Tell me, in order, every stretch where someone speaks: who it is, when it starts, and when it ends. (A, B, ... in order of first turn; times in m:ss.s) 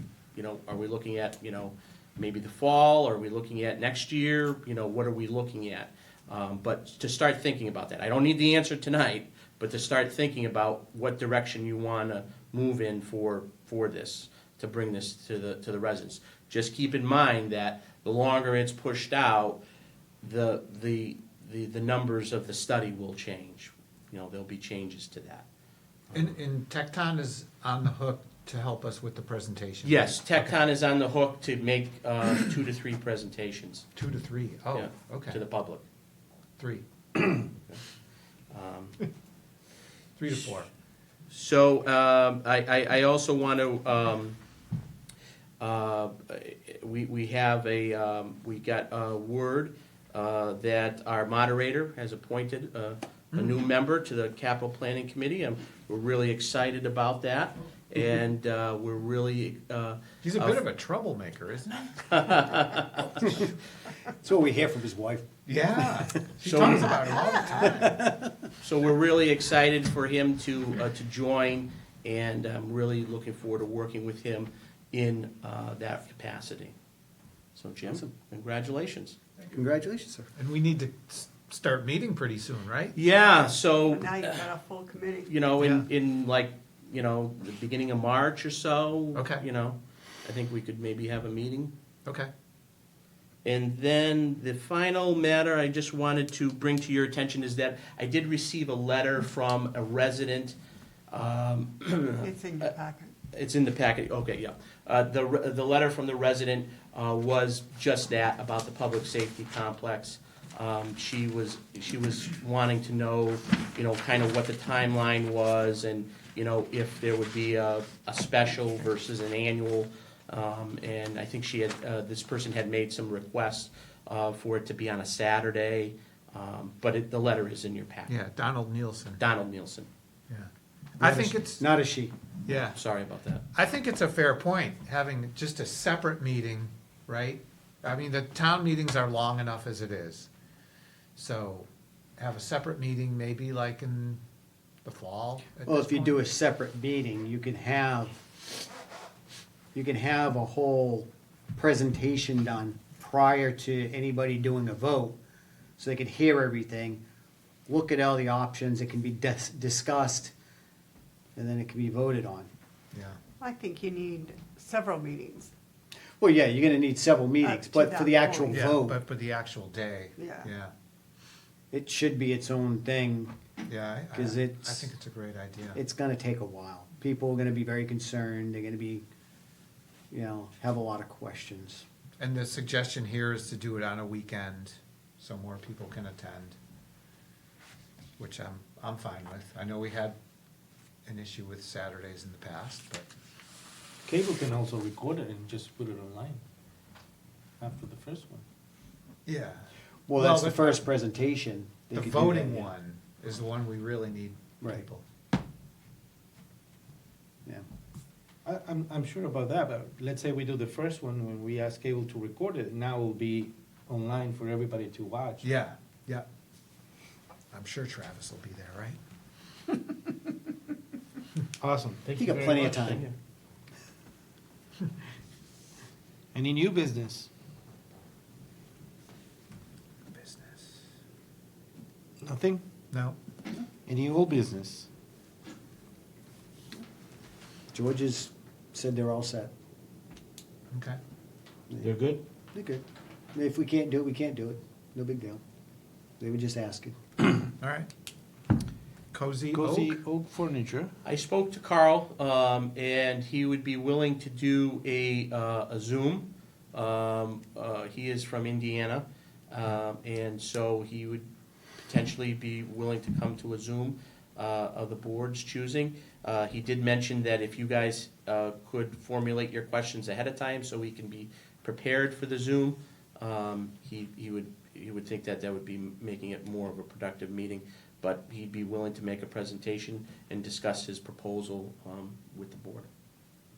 0:00.3-0:19.6 A
0:20.2-0:25.4 A
0:26.1-0:30.5 B
0:29.8-0:33.8 A
0:34.0-0:35.4 B
0:34.7-0:35.8 A
0:36.6-0:36.8 B
0:37.5-0:37.8 A
0:38.5-0:39.0 A
0:40.2-0:40.7 B
0:41.3-0:44.4 A
0:45.6-1:00.6 A
1:00.2-1:01.9 B
1:02.1-1:03.3 A
1:03.2-1:03.5 C
1:04.2-1:06.2 C
1:05.4-1:08.0 B
1:06.4-1:06.9 A
1:07.5-1:08.3 C
1:08.6-1:16.7 A
1:17.5-1:19.2 A
1:19.5-1:20.3 C
1:20.4-1:23.0 B
1:23.0-1:24.5 A
1:23.8-1:25.3 D
1:25.2-1:31.7 A
1:25.6-1:25.9 B
1:29.1-1:29.4 B
1:33.4-1:40.6 A
1:41.1-1:42.7 A
1:42.2-1:43.1 D
1:43.3-2:08.1 A
2:08.1-2:09.2 B
2:09.2-2:09.9 A
2:10.3-2:11.6 B
2:11.0-2:12.1 C
2:12.4-2:12.8 B
2:12.7-2:13.4 A
2:13.5-2:20.3 B
2:21.2-2:24.2 B
2:24.8-2:26.2 B
2:25.6-2:28.1 C
2:29.7-2:35.2 C
2:35.8-2:37.0 C
2:37.7-2:40.3 C
2:41.4-2:42.5 C
2:42.9-2:43.2 B
2:43.4-2:45.5 D
2:46.2-2:49.0 C
2:47.4-2:48.7 D
2:48.5-2:50.7 B
2:50.2-2:50.5 D
2:51.7-2:53.3 C
2:53.6-2:55.8 B
2:54.1-2:54.9 C
2:55.7-2:59.0 C
3:00.1-3:01.8 C
3:02.2-3:06.6 B
3:08.2-3:10.2 B
3:11.0-3:13.1 B
3:14.0-3:16.4 E
3:17.6-3:18.4 E
3:19.2-3:20.8 B
3:20.1-3:22.7 C
3:21.9-3:25.0 B
3:28.4-3:35.4 E
3:35.4-3:36.2 B
3:37.5-3:39.0 B
3:41.6-3:43.0 E
3:42.1-3:43.0 C
3:42.6-3:43.1 A
3:46.3-3:47.3 E
3:50.1-3:50.8 B
3:52.2-3:52.6 E
3:52.9-3:53.2 B
3:53.8-3:54.9 E
3:57.7-3:59.5 C
4:00.7-4:01.0 B
4:01.8-4:02.2 E
4:02.5-4:05.4 C
4:06.2-4:07.0 C
4:07.6-4:07.9 B
4:09.1-4:10.0 B
4:09.5-4:10.9 E
4:11.0-4:21.3 A
4:21.8-4:42.9 A